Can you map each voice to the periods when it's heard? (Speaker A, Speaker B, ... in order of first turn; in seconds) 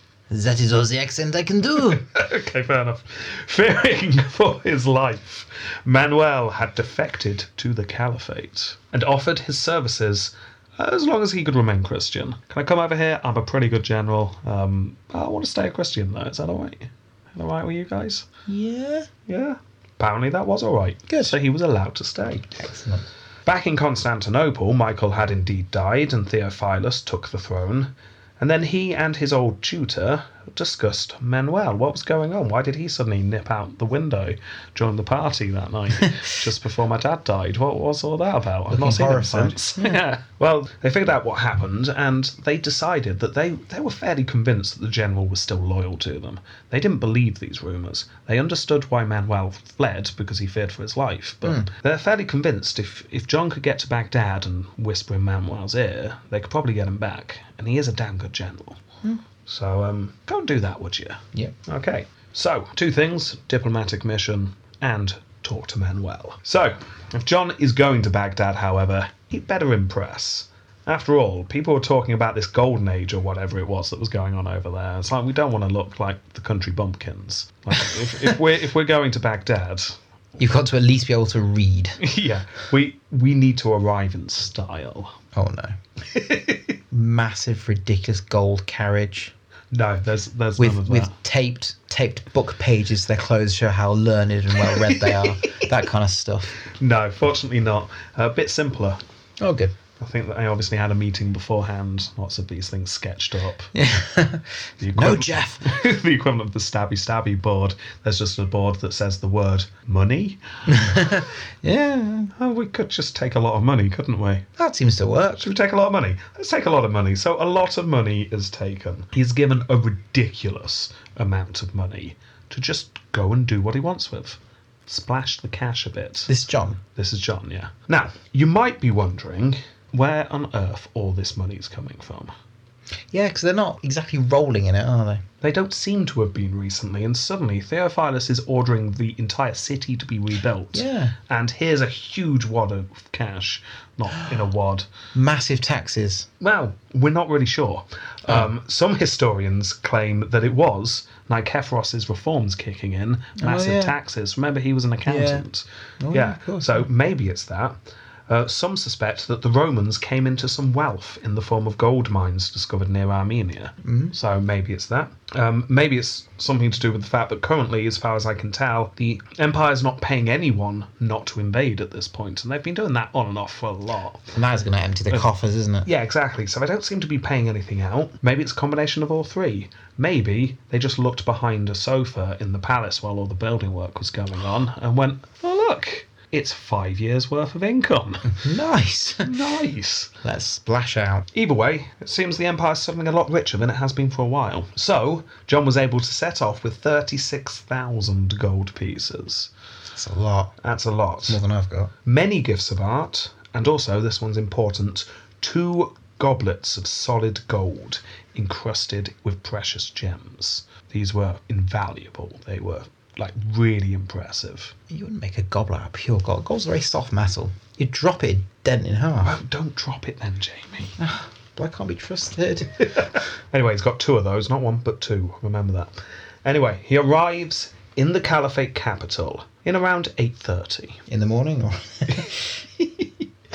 Speaker A: 0.3-2.0, 18.5-19.1, 21.1-21.3, 22.5-23.1, 38.7-40.0, 77.8-78.3, 80.4-82.0, 85.3-85.7, 86.9-89.3, 90.6-96.5, 99.4-99.7, 103.7-105.7, 110.7-112.3, 114.6-115.5, 126.3-126.8, 133.1-135.2, 140.7-141.1, 145.1-146.3, 153.4-153.9, 155.1-155.4, 156.0-156.9, 163.8-164.1, 174.3-175.9, 188.3-189.3, 190.2-191.3, 199.9-200.5, 201.3-201.9, 214.9-219.3, 221.0-223.0, 231.1-232.5
Speaker B: 2.0-18.2, 19.3-22.5, 23.4-58.8, 59.5-80.0, 82.0-85.2, 86.1-86.7, 89.7-91.1, 94.7-95.6, 96.7-99.0, 100.0-103.7, 104.8-111.2, 112.4-114.5, 115.4-126.3, 126.9-132.3, 135.4-144.9, 146.4-157.8, 158.3-174.3, 175.8-188.4, 189.2-190.1, 191.3-199.5, 200.6-201.4, 202.0-214.7, 219.2-220.9, 222.8-231.0, 232.1-233.1